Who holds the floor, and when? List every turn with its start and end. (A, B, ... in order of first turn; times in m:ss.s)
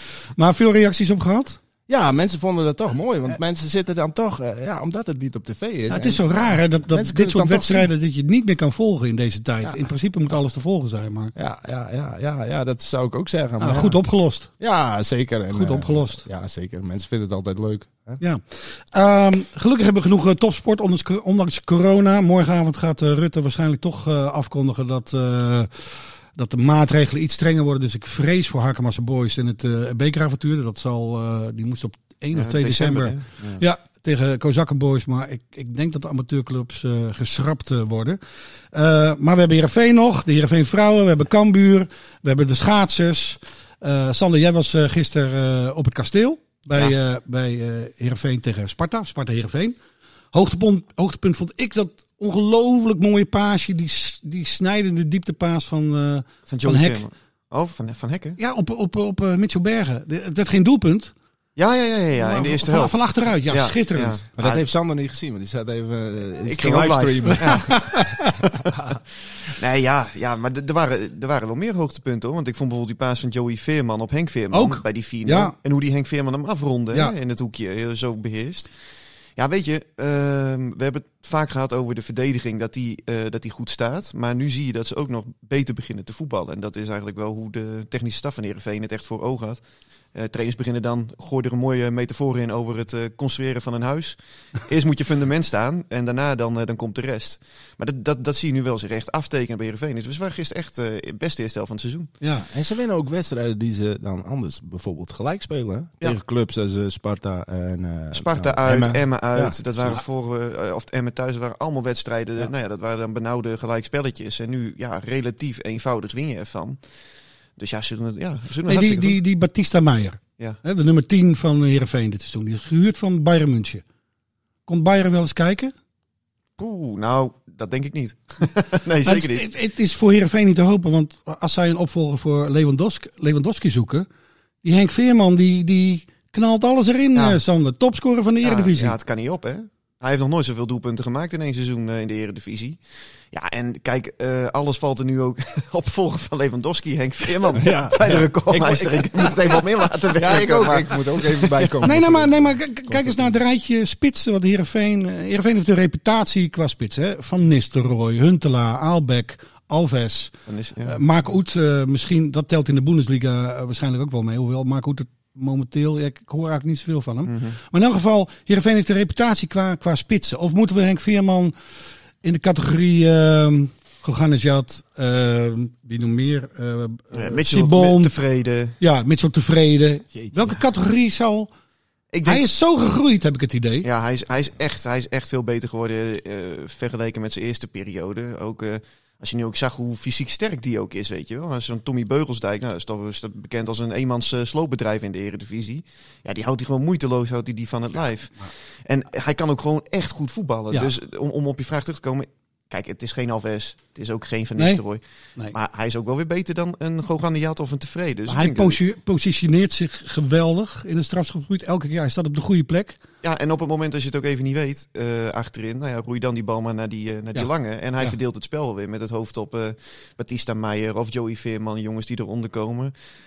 0:00.3-0:01.6 A
0:01.9-0:07.9 B
0:05.9-0:11.3 A
0:11.3-0:14.0 B
0:13.6-0:14.5 A
0:14.6-0:18.2 B
0:15.5-0:16.2 A
0:18.2-0:38.2 A
0:32.3-0:33.6 C
0:38.7-0:49.8 A
0:50.3-0:57.0 A
0:56.5-0:58.4 C
0:58.4-1:01.1 A
1:01.6-1:04.6 C
1:02.1-1:04.2 A
1:04.4-1:09.0 B
1:06.4-1:07.9 C
1:07.4-1:08.2 A
1:09.4-1:18.7 C
1:14.5-1:15.5 A
1:19.4-1:29.6 C
1:30.1-1:42.1 C
1:42.2-1:42.5 A
1:42.4-1:49.6 B
1:48.1-1:56.8 C
1:57.6-1:59.2 C
1:58.7-2:03.8 A
2:04.7-2:05.7 A
2:06.6-2:09.5 C
2:09.0-2:14.1 A
2:14.6-2:18.9 A
2:17.1-2:17.4 C
2:18.4-2:22.8 C
2:23.3-2:31.8 C
2:27.6-2:33.4 B
2:31.8-2:40.4 A
2:40.4-2:41.0 C
2:40.9-2:51.6 A
2:47.2-2:47.6 C
2:52.2-2:58.1 A
2:57.1-2:58.8 C
2:58.8-3:01.5 A
3:00.1-3:00.6 B
3:02.1-3:02.5 C
3:02.2-3:03.9 A
3:03.8-3:28.8 C
3:28.3-3:33.0 A
3:33.2-3:42.9 C